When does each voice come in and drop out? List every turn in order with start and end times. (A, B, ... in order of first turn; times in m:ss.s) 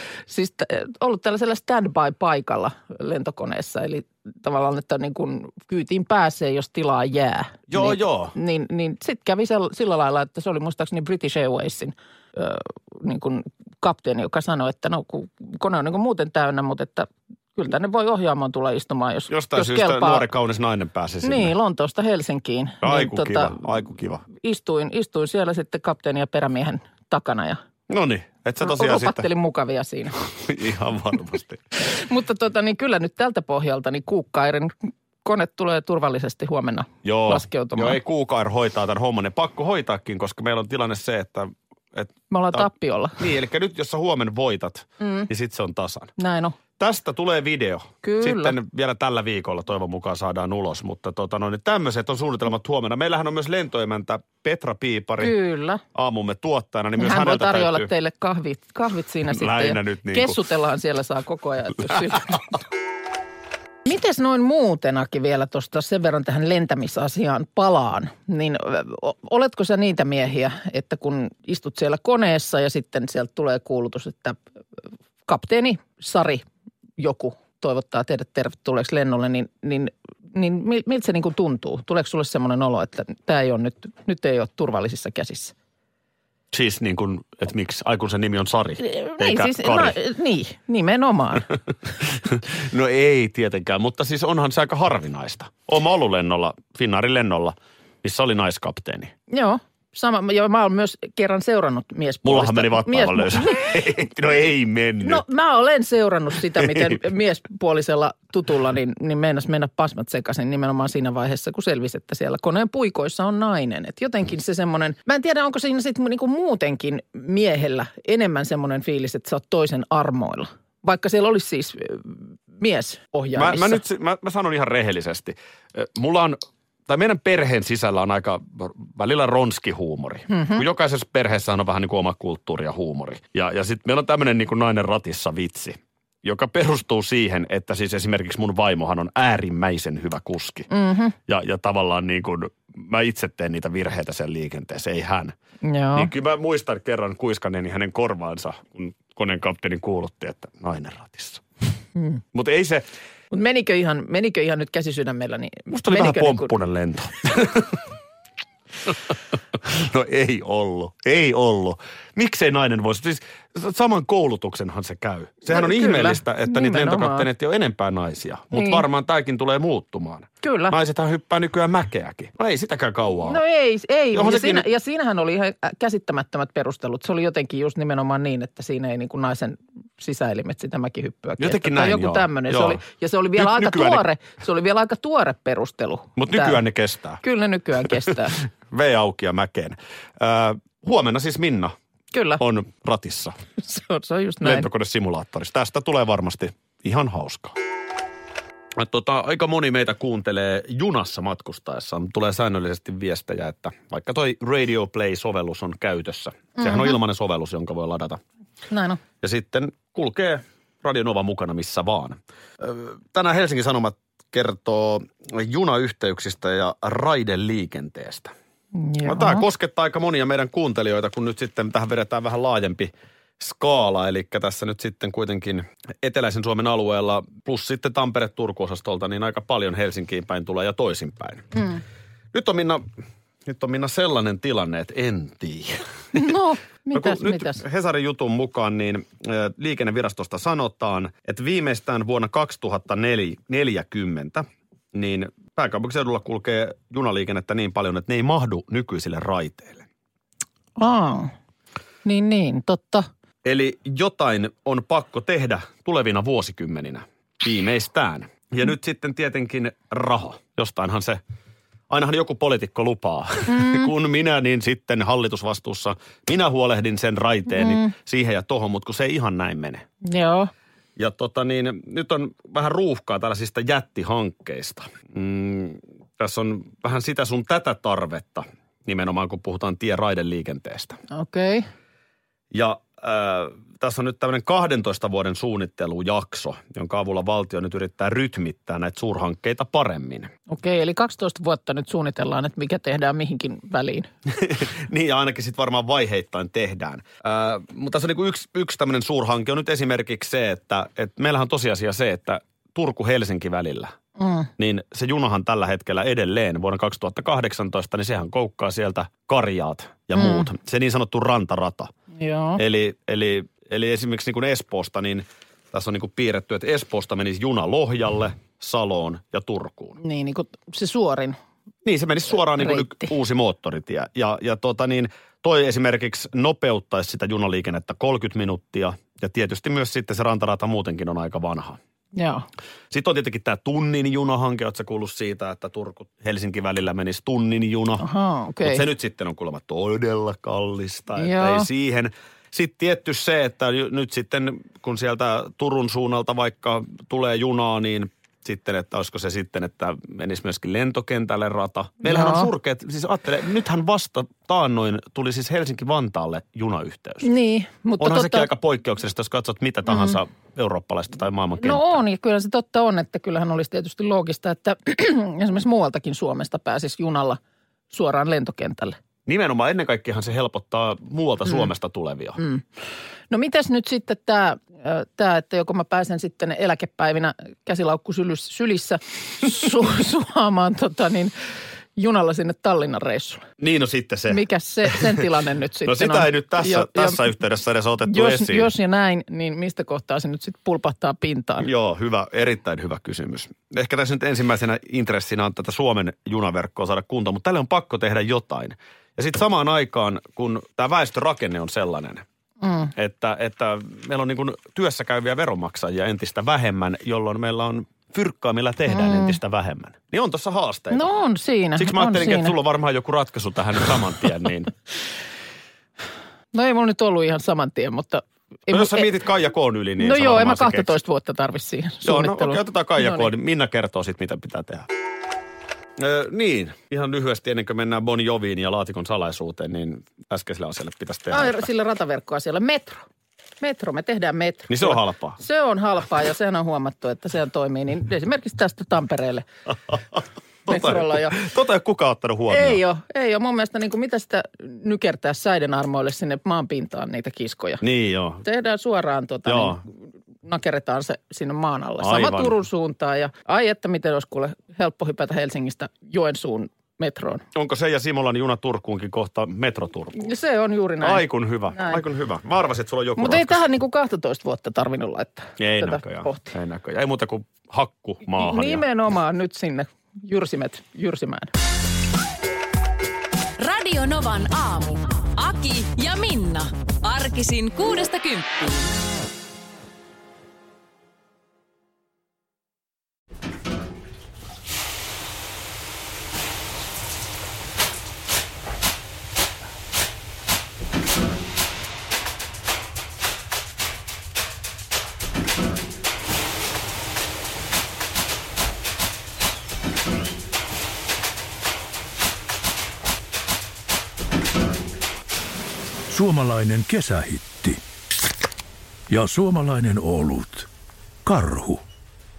0:00.3-0:20.3 A
0:07.7-0:08.4 B
0:19.3-0:21.5 B
0:21.2-0:23.6 A
0:22.8-0:24.2 B
0:24.3-0:27.6 A
0:27.9-0:29.3 B
0:28.6-0:30.2 A
0:30.4-0:31.6 B
0:31.8-0:38.0 A
0:37.0-0:46.1 B
0:42.3-0:43.2 A
0:45.0-0:45.3 A
0:46.2-0:46.6 A
0:46.8-0:55.4 B
0:48.0-0:48.6 A
0:55.2-0:55.8 A
0:55.9-0:57.9 B
0:57.0-1:02.6 A
0:59.3-1:00.4 B
1:03.8-1:14.4 A
1:15.3-1:16.4 A
1:17.0-1:25.5 A
1:26.5-1:30.0 B
1:28.8-1:31.5 A
1:32.0-1:39.1 B
1:39.3-1:43.6 A
1:42.2-1:45.2 B
1:45.0-2:03.8 A
1:46.6-1:46.9 B
2:03.4-2:06.4 B
2:06.9-2:20.7 B
2:10.3-2:10.6 A
2:20.7-2:21.2 A
2:21.3-2:25.3 B
2:25.6-2:26.1 A
2:26.0-2:31.4 B
2:32.3-2:32.8 B
2:33.3-2:36.5 A
2:35.7-2:37.8 B
2:39.6-2:53.4 B
2:45.5-2:47.3 A
2:48.5-2:48.8 A
2:50.4-2:50.8 A
2:53.2-3:06.6 A
2:54.1-2:54.6 B
3:01.4-3:02.8 B
3:03.4-3:04.0 B
3:06.2-3:07.2 B
3:07.2-3:08.4 A
3:08.7-3:11.7 B
3:12.1-3:12.4 A
3:12.4-3:13.4 B
3:13.6-3:14.7 A
3:14.4-3:17.5 B
3:18.8-3:28.2 B
3:26.6-3:27.0 A
3:28.7-3:29.0 A
3:29.2-3:38.3 B
3:38.7-3:39.5 A
3:39.0-3:51.7 B
3:52.3-3:52.8 B
3:53.5-3:56.3 B
3:56.1-3:57.6 A
3:56.9-4:09.8 B
4:10.8-4:11.3 A
4:12.0-4:13.1 A
4:13.4-4:21.2 B
4:21.9-4:29.8 B
4:23.5-4:23.9 A
4:27.6-4:27.9 A
4:30.0-4:30.5 A
4:31.0-4:41.0 B
4:41.1-4:41.7 A
4:42.5-4:50.3 B
4:50.5-4:54.1 A
4:54.3-5:03.9 B
5:04.2-5:04.5 A
5:04.6-5:11.9 B
5:10.1-5:10.5 A
5:12.2-5:12.6 A
5:12.6-5:20.0 B
5:20.0-5:21.4 A
5:21.8-5:31.8 B
5:22.6-5:23.0 A
5:32.2-5:32.4 A
5:32.9-5:38.0 B
5:38.0-5:38.8 A
5:38.6-5:57.3 B
5:41.2-5:41.7 A
5:52.0-5:52.5 A
5:57.2-5:58.5 A
5:58.0-6:01.9 B
5:59.9-6:00.2 A
6:01.6-6:07.4 A
6:07.9-6:09.0 A
6:09.3-6:12.4 B
6:12.4-6:12.6 A
6:13.3-6:21.3 A
6:22.0-6:23.4 A
6:23.6-6:25.2 B
6:24.3-6:27.2 A
6:25.9-6:28.7 B
6:28.1-6:31.7 A
6:31.6-6:42.2 B
6:42.6-6:42.9 A
6:43.0-6:51.1 B
6:48.9-6:49.4 A
6:50.9-6:52.6 A
6:51.8-6:54.7 B
6:56.5-6:59.1 A
6:58.7-7:01.0 B
7:00.0-7:03.3 A
7:02.0-7:04.9 B
7:06.0-7:11.7 B
7:11.3-7:13.0 A
7:13.6-7:19.4 A
7:14.7-7:15.4 B
7:20.7-7:22.8 B
7:20.7-7:21.4 A
7:22.5-7:27.8 A
7:27.8-7:28.4 B
7:28.4-7:37.4 A
7:29.5-7:29.8 B
7:32.0-7:32.6 B
7:37.6-7:40.3 B
7:40.2-7:42.0 A
7:41.0-7:43.6 B
7:43.2-7:46.5 A
7:45.6-7:48.8 B
7:48.4-7:51.5 A
7:53.6-7:58.6 C
8:26.1-8:27.8 D
8:29.1-8:30.7 D
8:31.2-8:31.8 D